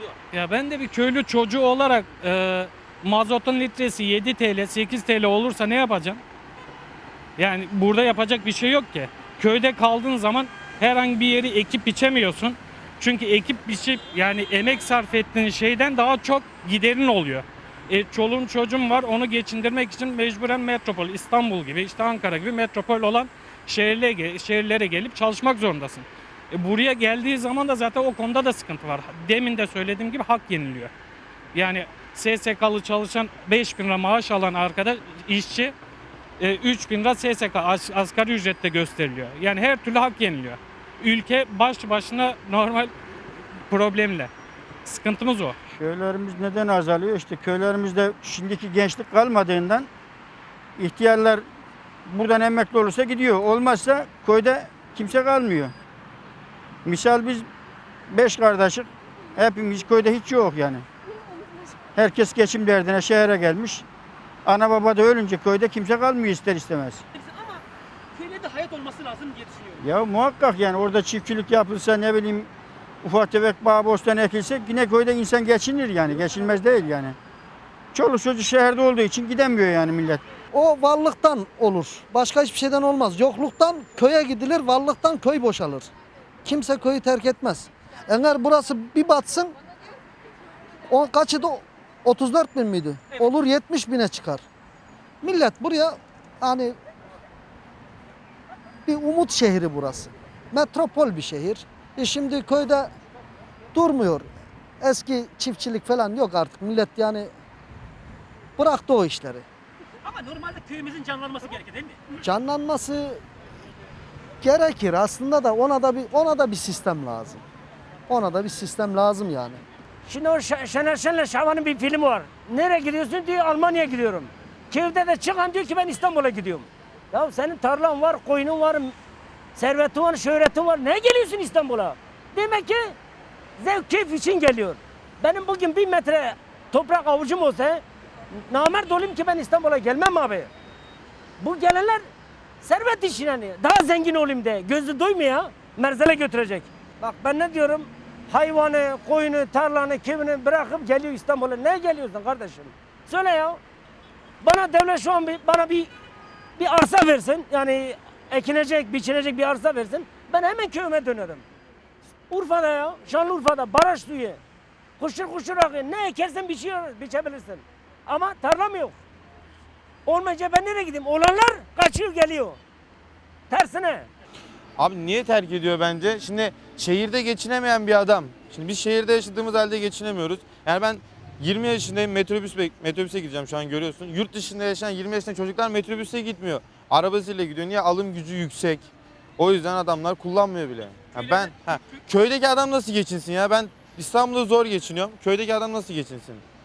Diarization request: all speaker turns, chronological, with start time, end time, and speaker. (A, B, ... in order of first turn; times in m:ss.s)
0:00.3-0:06.2 A
0:07.4-0:30.9 A
0:31.5-0:35.7 A
0:36.4-0:42.9 A
0:43.7-0:44.3 A
0:44.8-0:45.5 A
0:45.8-0:49.9 B
0:50.8-0:51.4 B
0:52.1-0:55.7 B
0:56.8-0:57.5 B
0:58.1-1:00.8 B
1:02.0-1:03.8 B
1:04.4-1:07.0 B
1:07.2-1:07.6 C
1:08.1-1:09.8 C
1:09.8-1:12.5 B
1:13.0-1:17.2 B
1:17.9-1:20.2 B
1:20.5-1:25.9 D
1:26.4-1:29.6 D
1:30.9-1:34.4 D
1:35.2-1:36.8 D
1:38.8-1:42.9 D
1:43.7-1:44.3 D
1:44.8-1:47.3 D
1:48.6-1:49.4 D
1:50.0-1:52.0 C
1:52.2-1:53.2 D
1:54.4-1:57.4 D
1:58.1-1:59.6 D
2:00.0-2:08.9 E
2:09.5-2:13.0 E
2:13.6-2:20.5 E
2:21.4-2:22.1 E
2:22.6-2:33.6 E
2:34.4-2:35.9 E
2:36.6-2:41.4 E
2:42.3-2:44.4 E
2:45.0-2:49.0 E
2:50.0-2:52.6 E
2:53.5-2:54.1 E
2:54.8-3:16.4 F